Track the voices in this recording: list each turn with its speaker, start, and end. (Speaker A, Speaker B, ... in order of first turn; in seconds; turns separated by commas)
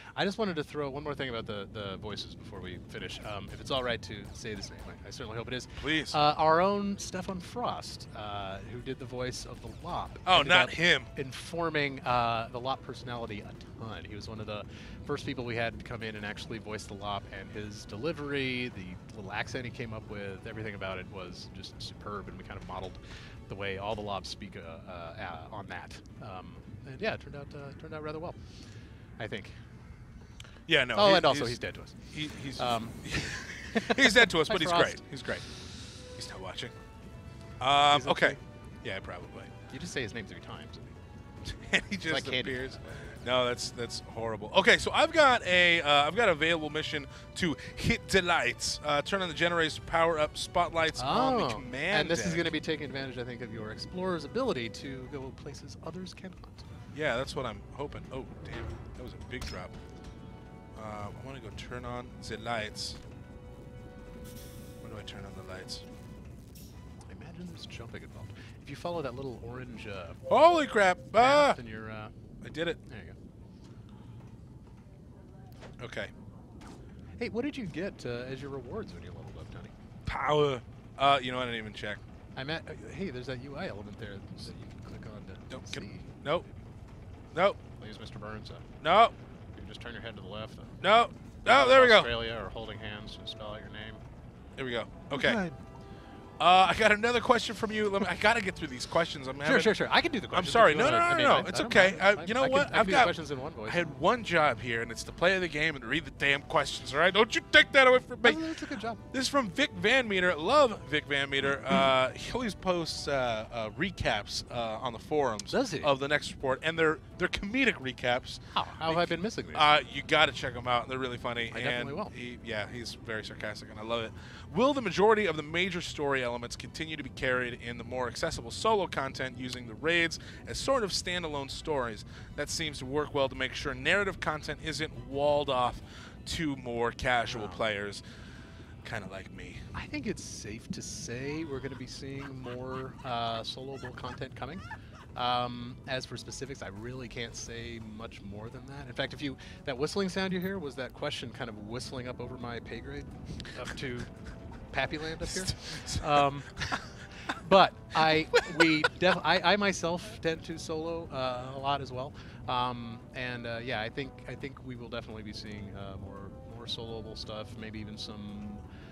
Speaker A: 0.1-28.4, Speaker B: 5.8-6.2, Speaker B: 10.2-11.1, Speaker A: 29.2-29.6, Speaker B: 30.7-31.6, Speaker A: 30.9-33.0, Speaker B: 32.1-35.4, Speaker A: 33.7-35.4, Speaker B: 36.1-36.7, Speaker B: 37.6-39.5, Speaker A: 37.9-38.4, Speaker A: 39.7-41.0, Speaker B: 41.5-52.5, Speaker A: 42.1-43.1, Speaker A: 51.0-56.7, Speaker B: 56.9-59.8, Speaker B: 60.8-63.0, Speaker B: 64.8-65.8, Speaker A: 67.0-70.2, Speaker B: 70.3-71.6, Speaker A: 71.2-72.1, Speaker B: 72.4-72.8, Speaker A: 72.9-73.2, Speaker B: 75.8-76.1, Speaker A: 77.2-79.7, Speaker B: 80.0-82.0, Speaker A: 82.3-86.5, Speaker B: 85.5-86.5, Speaker B: 87.3-87.6, Speaker A: 87.8-88.7, Speaker B: 88.8-89.1, Speaker A: 89.5-90.8, Speaker B: 90.8-92.1, Speaker A: 91.5-94.0, Speaker B: 94.6-95.4, Speaker A: 95.1-95.6, Speaker B: 96.4-103.1, Speaker A: 99.4-103.9, Speaker B: 103.7-108.4, Speaker A: 108.2-109.0, Speaker B: 109.1-138.0, Speaker A: 115.5-115.9, Speaker A: 118.5-119.7, Speaker A: 121.5-122.1, Speaker A: 137.2-137.6, Speaker B: 138.8-139.7, Speaker A: 139.7-144.6, Speaker A: 145.1-154.1, Speaker A: 154.7-156.5, Speaker B: 155.3-156.9, Speaker A: 157.3-168.6, Speaker B: 158.0-158.7